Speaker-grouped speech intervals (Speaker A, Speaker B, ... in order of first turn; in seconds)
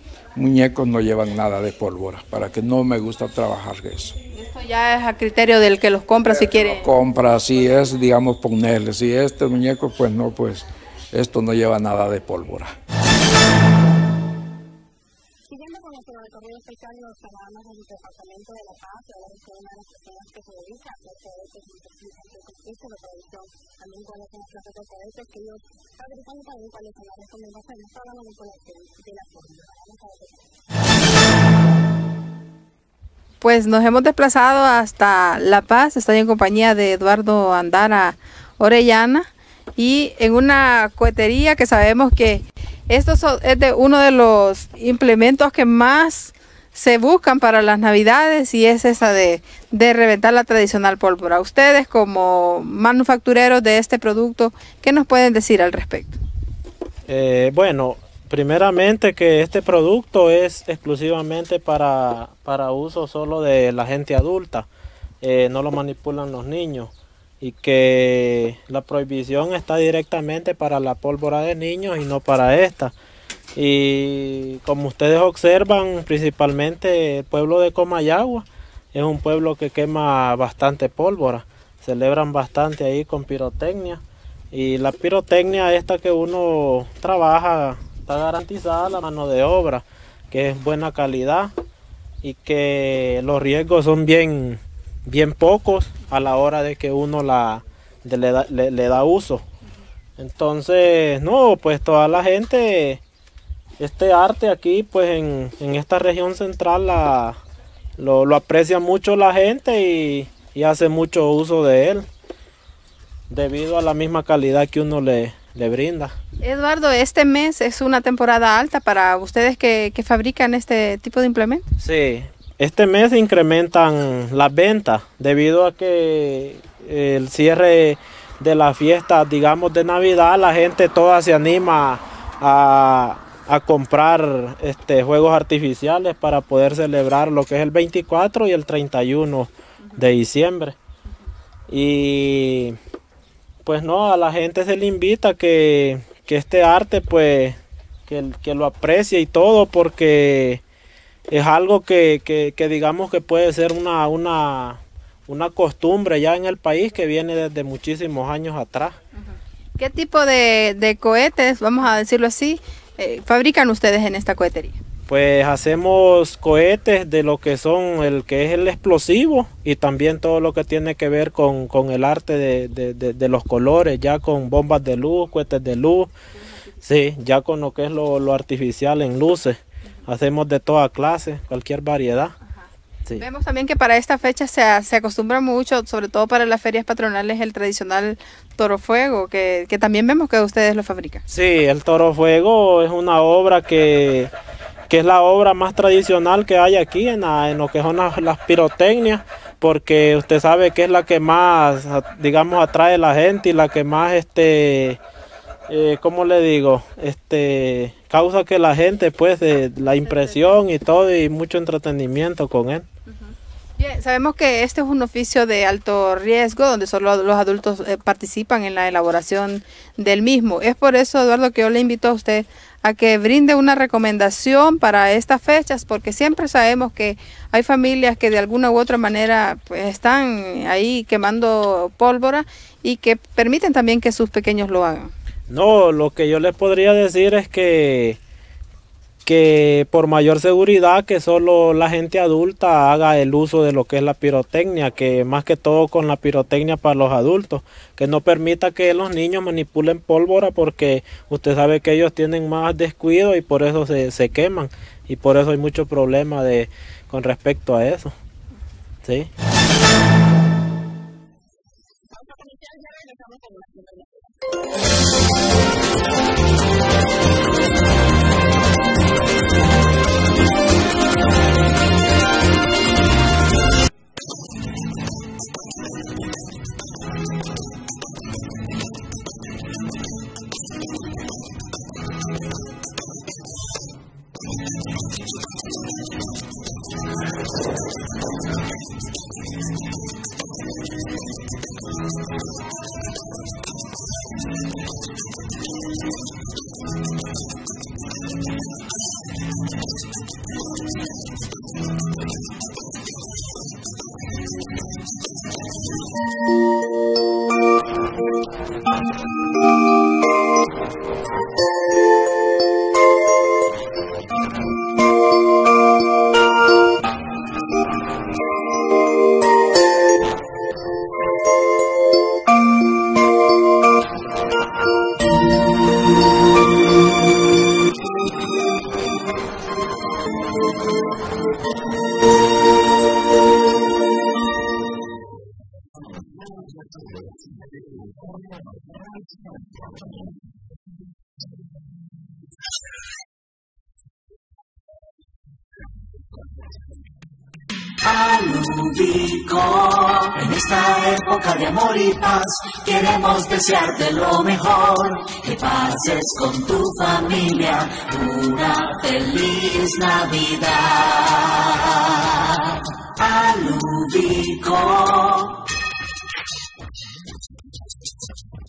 Speaker A: 0.3-4.2, 6.4-12.7
Speaker B: 4.3-6.9, 33.4-56.2, 116.4-121.6, 159.2-164.8, 183.2-191.2, 210.1-210.4, 213.1-235.1
Speaker C: 15.5-30.5, 262.1-264.5
Speaker D: 57.1-64.7, 65.2-72.9, 73.5-91.5, 92.2-99.5, 100.2-103.0, 103.8-107.4, 108.0-112.0, 113.3-116.1, 121.8-140.7, 141.7-142.8, 143.6-150.6, 151.3-159.0, 165.1-176.1, 176.8-182.3, 191.3-194.3, 194.9-205.0, 205.7-212.9, 235.5-238.2, 239.2-258.1, 259.0-259.3
Speaker E: 348.0-362.2, 363.2-365.6